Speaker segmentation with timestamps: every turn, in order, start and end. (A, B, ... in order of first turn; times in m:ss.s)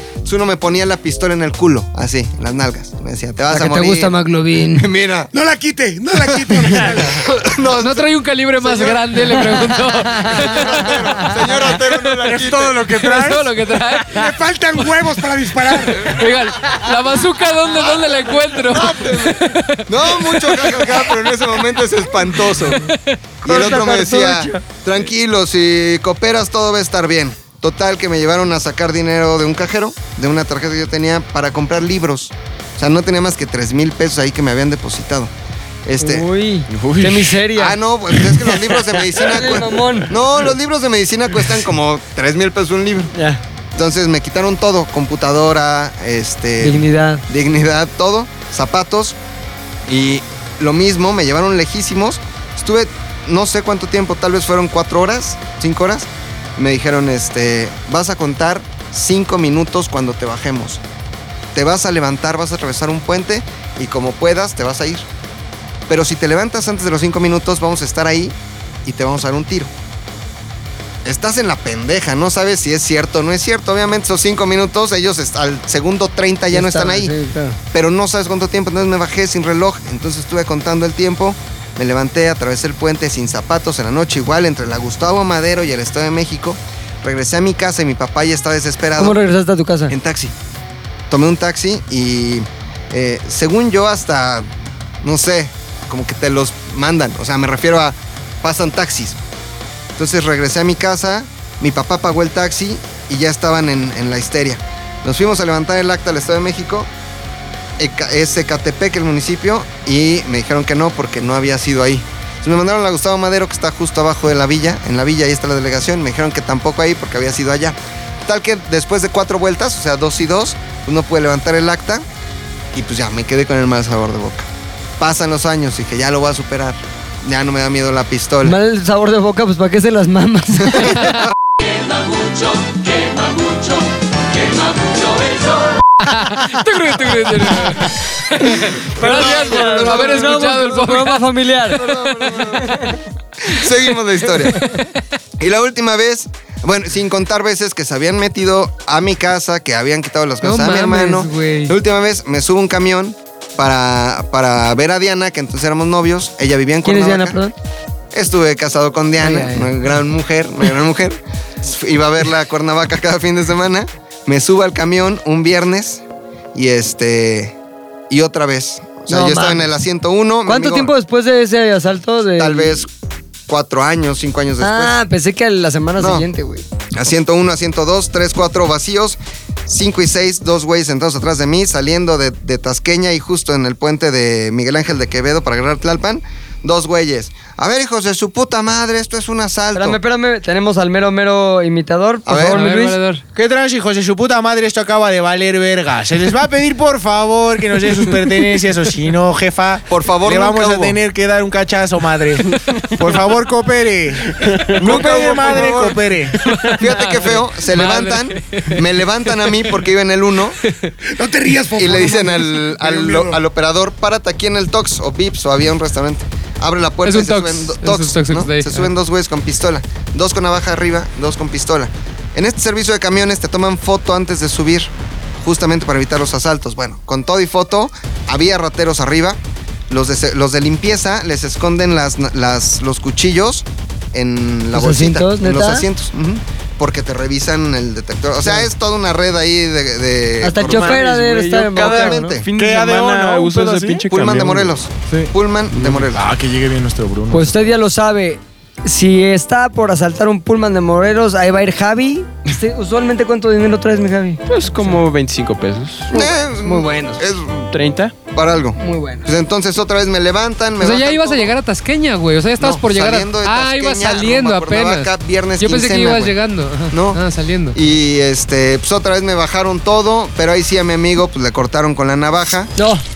0:00.2-0:04.1 A
0:03.5-0:04.9 B
0:04.7-0:05.3 A
0:05.3-0:07.2 C
0:06.5-0:12.8 A
0:07.8-0:12.0 D
0:12.2-0:13.8 E
0:12.9-0:14.3 D
0:14.1-0:16.2 C
0:15.9-0:21.4 D
0:16.6-0:22.9 A
0:22.4-0:23.2 D
0:23.4-0:35.3 A
0:23.4-0:24.6 B
0:35.9-0:36.3 A
0:36.0-0:37.8 B
0:36.7-0:37.3 F
0:37.5-0:43.1 A
0:39.2-0:40.1 B
0:43.1-0:43.4 B
0:43.7-0:49.2 A
0:46.6-0:47.2 B
0:49.9-1:00.8 A
1:01.5-1:05.1 A
1:05.9-1:09.7 A
1:11.0-1:17.1 A
1:16.5-1:17.6 B
1:17.7-1:29.2 A
1:29.0-1:29.9 B
1:29.9-1:30.3 A
1:31.1-1:34.5 A
1:35.0-1:39.2 A
1:40.0-1:46.9 A
1:47.8-2:02.0 A
2:02.7-2:04.5 A
2:05.0-2:08.6 A
2:08.4-2:11.1 B
2:16.0-2:21.3 D
2:18.5-2:21.8 B
2:19.0-2:20.5 A
2:21.7-2:22.8 A
2:22.6-2:22.8 B
2:23.4-2:24.7 A
2:24.5-2:24.9 D
2:25.4-2:37.4 A
2:30.4-2:31.7 D
2:36.8-2:37.5 B
2:38.1-2:46.0 A
2:39.2-2:39.7 B
2:46.5-2:47.6 A
2:48.1-2:50.9 A
2:49.1-2:49.6 B
2:50.4-2:52.9 B
2:52.4-2:52.9 A
2:53.5-2:55.0 A
2:54.6-2:56.6 B
2:56.0-2:56.3 A
2:56.9-3:10.0 A
3:09.7-3:13.0 B
3:12.2-3:12.6 A
3:12.5-3:13.2 D
3:13.4-3:26.4 E
3:19.9-3:21.0 A
3:24.8-3:26.0 A
3:26.4-3:29.8 D
3:26.8-3:30.6 A
3:30.6-3:30.9 D
3:31.0-3:33.4 C
3:31.7-3:49.4 A
3:37.0-3:38.9 D
3:49.9-4:01.1 A
3:54.7-3:55.9 B
4:00.4-4:02.4 B
4:00.6-4:04.6 F
4:01.7-4:02.5 A
4:02.6-4:07.7 E
4:04.1-4:06.3 A
4:07.3-4:14.4 B
4:14.5-4:16.1 F
4:16.1-4:17.7 A
4:16.1-4:17.2 B
4:17.7-4:18.1 F
4:18.3-4:21.6 A
4:18.8-4:19.3 B
4:20.8-4:27.8 D
4:22.6-4:26.4 A
4:26.9-4:27.2 A
4:27.7-4:32.7 A
4:32.8-4:33.0 B